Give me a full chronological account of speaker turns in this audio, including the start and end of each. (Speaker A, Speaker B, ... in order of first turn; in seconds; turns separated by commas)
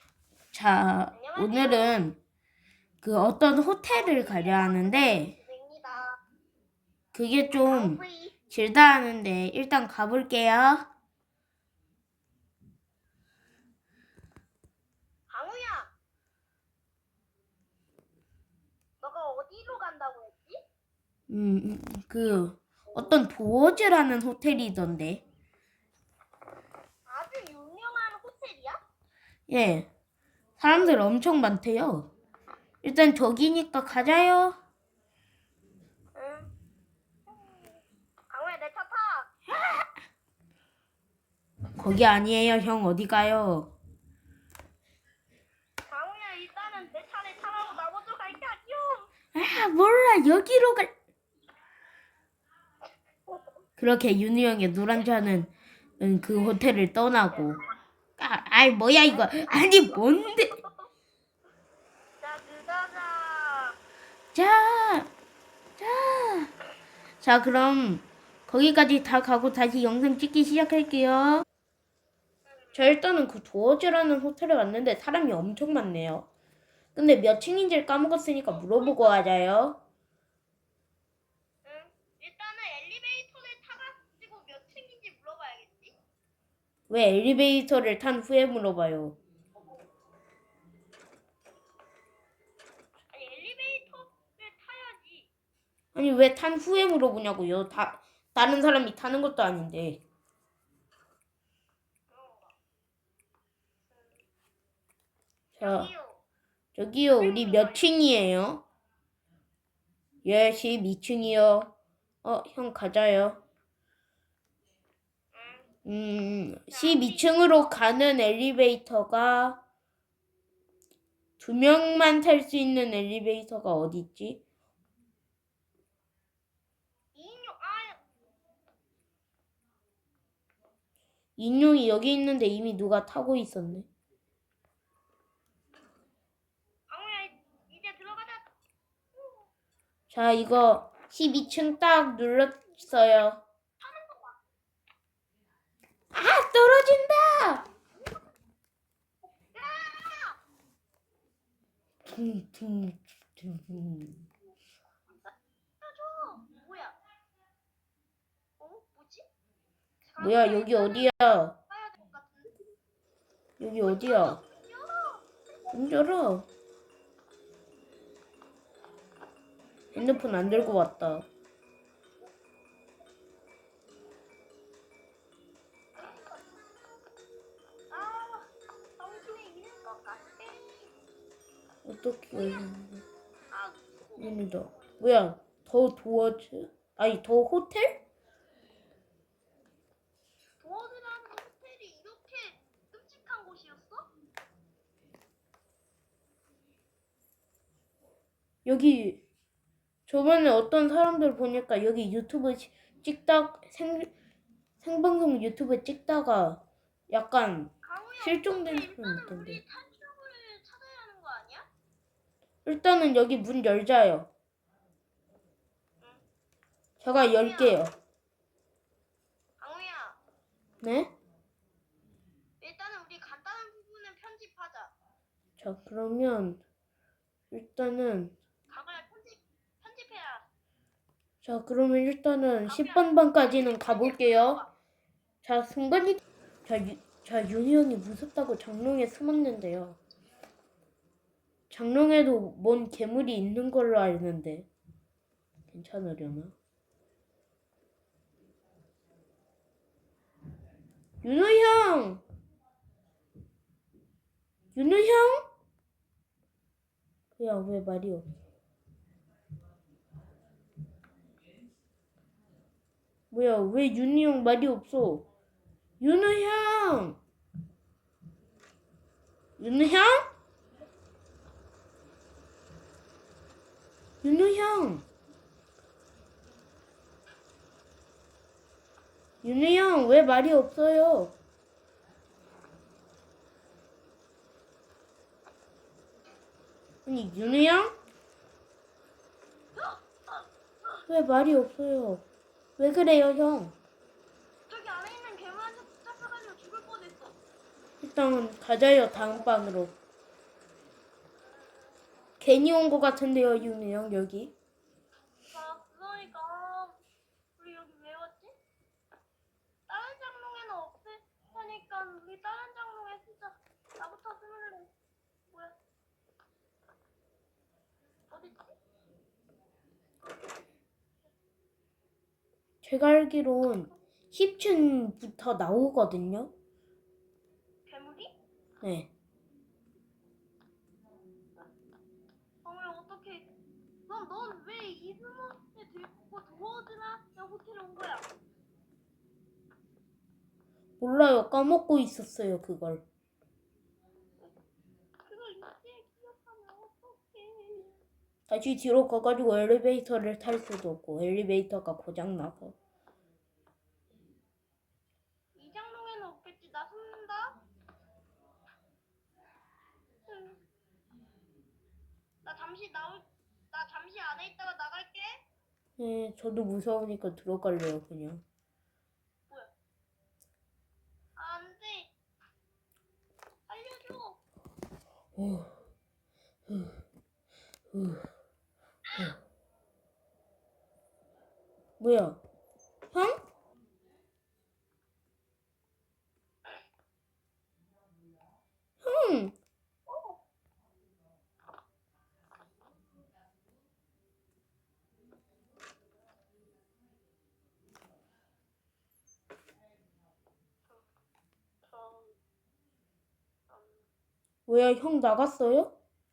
Speaker A: 0.5-2.2, Speaker B: 1.1-2.0, Speaker A: 3.0-5.3, Speaker B: 3.9-6.2, Speaker A: 7.1-10.9, Speaker B: 7.7-8.4, Speaker B: 15.3-15.9, Speaker B: 19.0-20.6, Speaker A: 21.3-25.2, Speaker B: 27.1-28.8, Speaker A: 29.5-29.9, Speaker A: 30.6-32.1, Speaker A: 32.8-34.6, Speaker B: 36.1-36.5, Speaker B: 37.4-37.8, Speaker B: 38.3-39.5, Speaker A: 41.8-43.7, Speaker B: 45.9-49.1, Speaker A: 49.3-50.9, Speaker A: 53.8-57.6, Speaker B: 57.3-57.7, Speaker A: 58.2-60.5, Speaker B: 59.1-60.0, Speaker B: 60.5-60.9, Speaker B: 62.2-63.8, Speaker A: 64.3-65.1, Speaker A: 65.8-66.5, Speaker A: 67.2-71.5, Speaker B: 72.5-72.8, Speaker A: 72.8-76.3, Speaker A: 77.0-79.8, Speaker B: 78.5-79.3, Speaker B: 81.6-86.0, Speaker A: 86.9-89.2, Speaker B: 89.6-89.8, Speaker B: 93.1-95.3, Speaker A: 96.0-100.0, Speaker B: 102.1-102.6, Speaker B: 103.9-104.2, Speaker A: 105.5-105.9, Speaker B: 105.6-106.2, Speaker A: 106.8-108.6, Speaker B: 107.1-107.9, Speaker A: 110.2-111.7, Speaker A: 112.2-113.4, Speaker B: 115.3-115.7, Speaker A: 115.9-119.6, Speaker B: 116.7-117.6, Speaker A: 121.4-124.4, Speaker B: 127.1-128.0, Speaker A: 131.4-133.9, Speaker B: 136.9-138.5, Speaker A: 140.1-143.4, Speaker B: 143.8-144.4, Speaker A: 146.1-147.7, Speaker B: 149.5-150.4, Speaker A: 152.1-154.2, Speaker B: 155.8-157.0, Speaker B: 158.6-159.3, Speaker B: 160.0-161.2, Speaker A: 160.2-161.5, Speaker B: 161.7-162.8, Speaker A: 163.6-164.4, Speaker B: 163.8-165.8, Speaker A: 165.7-166.5, Speaker B: 169.9-170.8, Speaker A: 169.9-171.3, Speaker B: 176.0-176.4, Speaker B: 177.9-180.9, Speaker A: 181.8-183.0, Speaker B: 182.3-182.7, Speaker B: 183.5-185.0, Speaker A: 184.2-188.0, Speaker B: 190.6-194.1, Speaker A: 198.7-199.2, Speaker A: 200.1-204.1, Speaker A: 204.8-209.6, Speaker B: 207.8-211.7, Speaker A: 212.7-214.3, Speaker A: 217.0-217.9, Speaker B: 217.2-217.8, Speaker B: 219.6-220.2, Speaker A: 220.8-221.1, Speaker B: 222.6-224.9, Speaker A: 225.6-226.6, Speaker A: 227.5-228.3, Speaker B: 228.7-230.5, Speaker A: 231.4-234.6, Speaker B: 232.7-234.7, Speaker A: 235.4-240.0, Speaker A: 241.7-244.7, Speaker A: 245.7-246.5, Speaker A: 251.2-252.2, Speaker A: 254.8-255.5, Speaker A: 257.4-258.3, Speaker A: 263.3-265.2, Speaker A: 266.0-267.2, Speaker A: 269.6-270.3, Speaker A: 274.2-275.1, Speaker A: 279.4-281.3, Speaker A: 287.1-287.9, Speaker B: 289.8-290.4, Speaker A: 291.1-292.2, Speaker A: 292.8-293.8, Speaker B: 294.7-297.4, Speaker A: 298.0-299.9, Speaker B: 301.6-302.2, Speaker A: 302.4-304.5, Speaker B: 305.5-307.0, Speaker B: 307.6-308.6, Speaker B: 309.9-314.9, Speaker B: 315.5-315.8, Speaker B: 318.3-318.8, Speaker A: 322.8-326.5, Speaker B: 327.9-328.3, Speaker A: 328.8-329.1, Speaker B: 332.6-333.5, Speaker B: 334.1-338.3, Speaker A: 341.0-343.0, Speaker B: 345.2-348.0, Speaker A: 348.5-352.8, Speaker B: 355.6-357.6, Speaker B: 360.3-360.6, Speaker B: 362.4-365.4, Speaker A: 366.0-368.4, Speaker B: 371.4-372.1, Speaker B: 373.7-374.4, Speaker A: 375.4-375.8, Speaker A: 376.7-377.0, Speaker A: 377.9-378.3, Speaker A: 382.0-382.4, Speaker A: 383.1-383.4, Speaker A: 389.0-389.6, Speaker B: 390.1-390.4, Speaker B: 401.9-402.4, Speaker B: 403.7-404.1, Speaker A: 404.7-405.9